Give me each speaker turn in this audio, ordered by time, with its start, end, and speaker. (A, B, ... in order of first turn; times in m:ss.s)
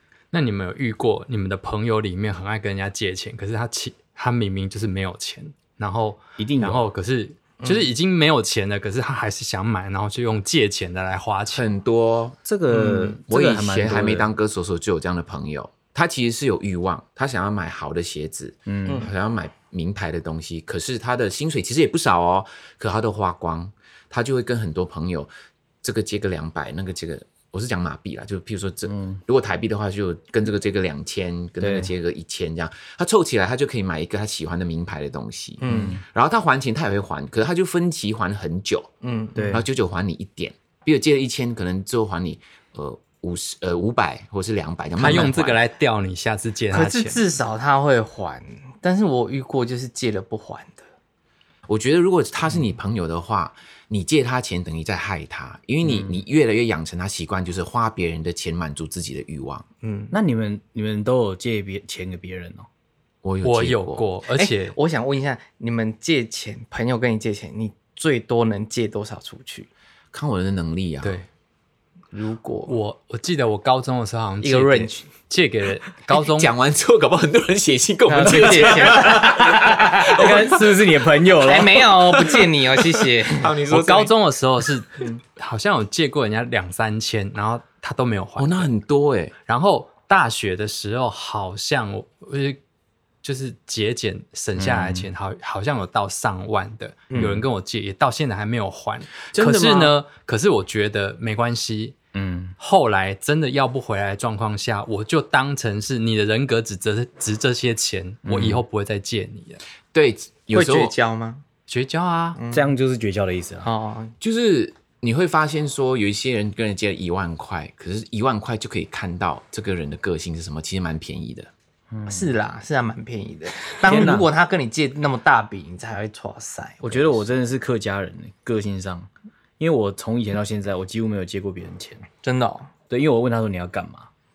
0:00.3-0:11.7 A
0:06.4-0:06.8 B
0:07.6-0:07.9 C
0:11.5-0:12.4 D
0:12.4-0:14.3 B
0:12.7-0:13.2 C
0:13.3-0:25.3 D
0:18.7-0:19.0 B
0:25.8-0:38.9 D
0:28.9-0:29.2 B
0:31.6-0:31.9 B
0:35.6-0:36.0 C
0:35.7-0:36.0 B
0:39.0-0:39.6 C
0:39.3-0:39.6 B
0:39.4-0:45.6 D
0:45.0-0:47.2 A
0:46.7-0:50.8 C
0:51.7-0:59.6 D
0:59.8-1:00.1 C
1:00.1-1:02.6 B
1:03.2-1:04.0 D
1:03.4-1:04.8 A
1:04.3-1:09.7 C
1:10.1-1:11.2 D
1:12.1-1:12.7 C
1:12.7-1:16.5 A
1:14.4-1:15.0 C
1:16.1-1:20.7 D
1:18.1-1:19.8 C
1:18.2-1:22.3 B
1:21.4-1:23.6 C
1:23.3-1:24.1 D
1:23.7-1:28.7 A
1:28.4-1:29.3 D
1:29.4-1:32.6 A
1:33.2-1:41.9 A
1:34.6-1:35.1 B
1:39.3-1:39.9 D
1:42.1-1:42.5 B
1:42.6-1:49.6 A
1:48.3-1:48.6 B
1:49.9-1:50.9 D
1:50.5-1:51.4 C
1:51.7-1:52.4 A
1:52.3-1:52.7 C
1:52.5-1:53.7 B
1:53.6-1:54.1 C
1:54.2-2:01.5 D
2:01.9-2:02.3 B
2:02.1-2:07.2 C
2:03.8-2:04.3 B
2:06.8-2:12.1 B
2:12.2-2:12.7 C
2:12.9-2:14.1 B